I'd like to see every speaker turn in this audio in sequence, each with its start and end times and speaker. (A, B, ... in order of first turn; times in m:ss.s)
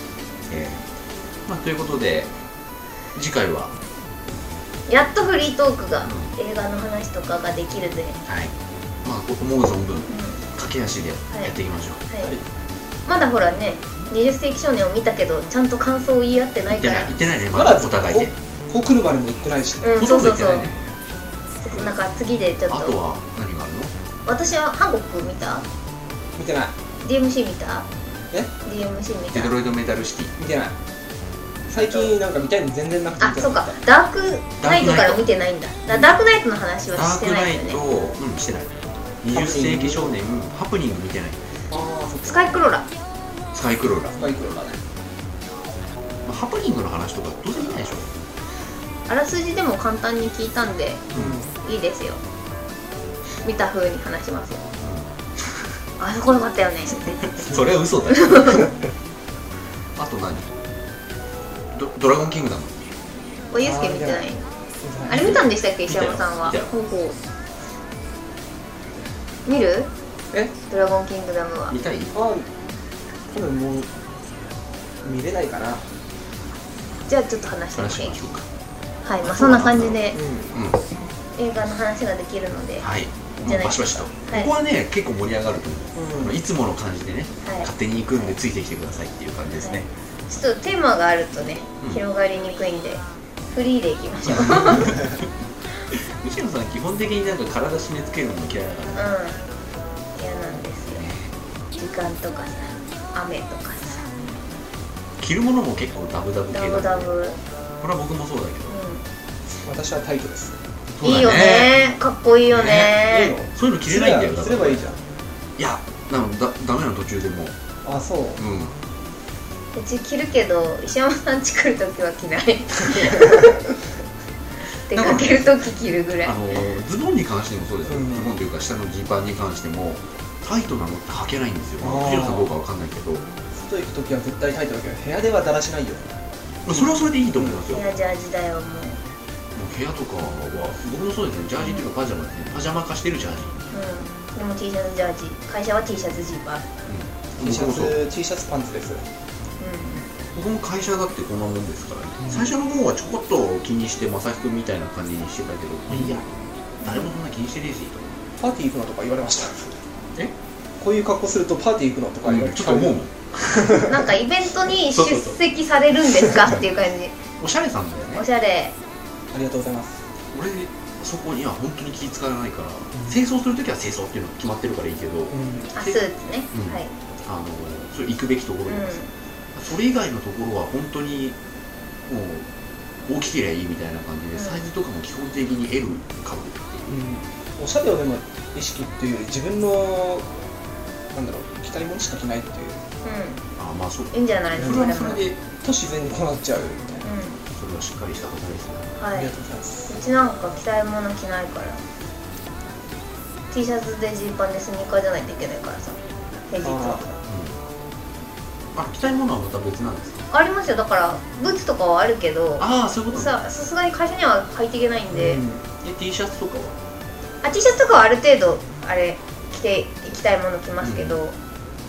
0:00.5-0:00.8 A
0:01.5-0:02.3 A
0:03.1-0:03.7 A
0:04.9-0:08.2 B
0:06.0-0:06.3 A
0:08.3-0:12.0 A
0:10.1-0:10.4 B
0:13.1-0:17.2 B
0:16.7-0:18.3 A
0:17.5-0:20.1 C
0:19.8-0:20.7 B
0:20.0-0:20.8 A
0:21.6-0:23.0 B
0:22.7-0:23.9 A
0:24.3-0:25.6 B
0:26.4-0:26.8 C
0:27.0-0:27.9 B
0:28.6-0:29.5 B
0:29.3-0:30.3 A
0:30.4-0:30.8 C
0:31.7-0:33.8 C
0:33.2-0:37.8 B
0:34.6-0:35.3 A
0:36.9-0:41.4 A
0:39.3-0:40.2 C
0:41.7-0:42.6 C
0:42.2-0:42.9 B
0:43.5-0:44.2 A
0:44.2-0:44.8 C
0:46.2-0:48.1 A
0:49.1-0:51.1 B
0:51.1-0:51.4 A
0:51.1-0:51.5 C
0:51.6-0:52.2 B
0:53.4-0:54.6 B
0:54.8-0:55.6 A
0:56.0-0:57.2 B
0:57.1-0:58.7 A
0:58.1-0:58.6 B
1:00.0-1:00.5 A
1:01.7-1:03.0 A
1:03.5-1:04.4 B
1:03.6-1:05.4 C
1:05.1-1:07.2 B
1:05.9-1:06.7 A
1:09.5-1:09.9 B
1:10.7-1:11.8 B
1:11.7-1:12.1 A
1:12.1-1:12.5 C
1:13.3-1:13.9 C
1:15.0-1:15.8 C
1:17.1-1:18.2 B
1:17.8-1:18.5 A
1:19.0-1:20.2 B
1:19.2-1:20.8 A
1:20.1-1:20.6 C
1:21.4-1:22.9 B
1:22.8-1:29.9 A
1:23.4-1:24.5 B
1:26.0-1:26.4 C
1:27.4-1:28.4 B
1:29.6-1:35.0 B
1:34.3-1:35.2 A
1:35.9-1:39.1 A
1:38.9-1:39.4 B
1:40.2-1:41.0 B
1:40.9-1:41.3 A
1:41.8-1:44.1 B
1:45.2-1:47.1 A
1:46.5-1:47.4 B
1:47.8-1:48.8 A
1:48.7-1:49.0 B
1:49.6-1:50.6 C
1:51.0-1:51.8 A
1:51.0-1:53.4 B
1:52.5-1:54.8 A
1:53.0-1:55.0 C
1:55.6-1:57.6 A
1:57.8-1:58.4 C
1:58.4-1:58.8 A
1:59.8-2:03.5 B
2:04.9-2:06.4 B
2:04.9-2:05.5 A
2:06.2-2:13.3 A
2:07.9-2:08.3 C
2:11.8-2:12.5 C
2:13.5-2:16.1 C
2:16.6-2:17.9 A
2:16.8-2:17.6 C
2:17.7-2:19.0 B
2:19.5-2:23.6 A
2:21.6-2:21.9 B
2:23.7-2:26.7 B
2:26.9-2:28.0 A
2:27.4-2:29.0 C
2:29.6-2:30.1 B
2:30.3-2:38.2 A
2:32.2-2:32.5 C
2:35.9-2:36.2 C
2:36.8-2:37.1 B
2:38.4-2:39.8 C
2:40.8-2:44.0 C
2:42.2-2:43.7 A
2:43.8-2:47.2 B
2:44.9-2:45.4 A
2:47.4-2:48.2 A
2:48.1-2:48.8 B
2:49.3-2:50.0 C
2:50.3-2:56.0 A
2:55.3-2:55.7 C
2:55.7-2:56.9 B
2:56.5-2:59.0 A
2:58.7-2:59.1 B
2:59.6-3:01.4 A
3:02.1-3:02.5 A
3:03.0-3:07.0 A
3:04.3-3:04.6 B
3:06.9-3:10.3 C
3:11.1-3:12.8 C
3:13.0-3:13.4 B
3:13.6-3:15.4 A
3:14.1-3:15.2 B
3:14.6-3:14.9 C
3:15.6-3:17.1 C
3:17.0-3:17.4 B
3:17.5-3:18.9 A
3:19.0-3:19.3 B
3:19.1-3:19.9 C
3:19.9-3:21.8 B
3:23.5-3:27.1 B
3:26.6-3:27.1 C
3:27.3-3:27.6 A
3:28.7-3:30.2 A
3:30.3-3:35.4 B
3:32.6-3:33.4 A
3:35.1-3:35.6 C
3:35.8-3:36.8 A
3:37.4-3:41.4 B
3:40.8-3:41.2 A